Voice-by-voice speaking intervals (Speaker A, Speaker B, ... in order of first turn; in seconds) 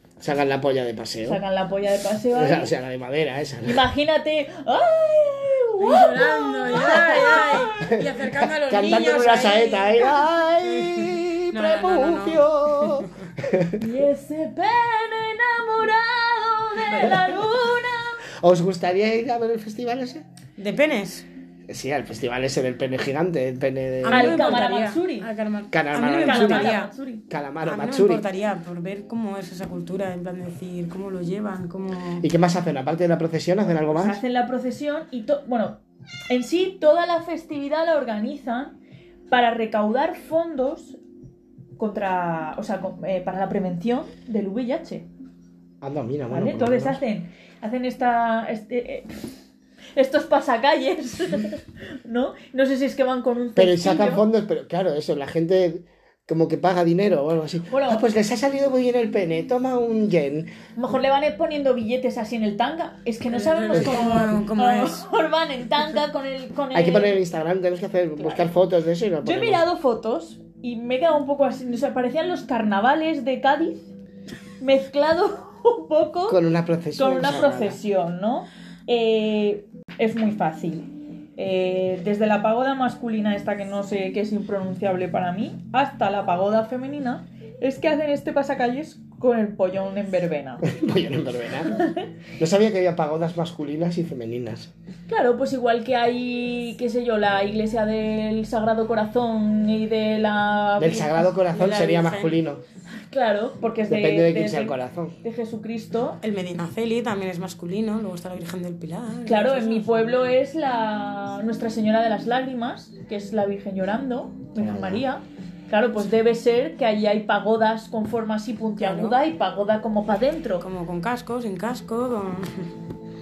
Speaker A: 0.2-1.4, 2.3-3.8, 7.8-13.8, 18.3-20.2, 21.7-24.6, 25.7-26.8, 27.3-28.2, 32.2-34.2, 45.8-47.0, 53.5-60.5, 63.7-64.0, 66.7-69.6, 76.3-77.8, 90.6-91.8, 92.4-94.7, 100.8-102.6, 103.9-105.2, 114.6-115.0
Speaker B: 1.3-2.7, 3.6-8.0, 13.8-18.2, 24.1-25.3, 26.2-27.2, 33.9-38.7, 39.3-41.0, 41.8-45.1, 46.3-49.3, 50.0-54.2, 57.7-58.0, 60.8-67.2, 69.2-73.9, 74.6-76.4, 76.9-90.7, 91.7-92.0, 95.1-101.3, 103.1-106.2, 109.2-120.7
Speaker C: 5.8-13.1, 16.8-17.4, 20.6-21.3, 24.0-26.9, 27.6-32.2, 63.3-65.1, 101.5-102.4, 106.2-110.4, 118.8-119.2, 120.6-122.7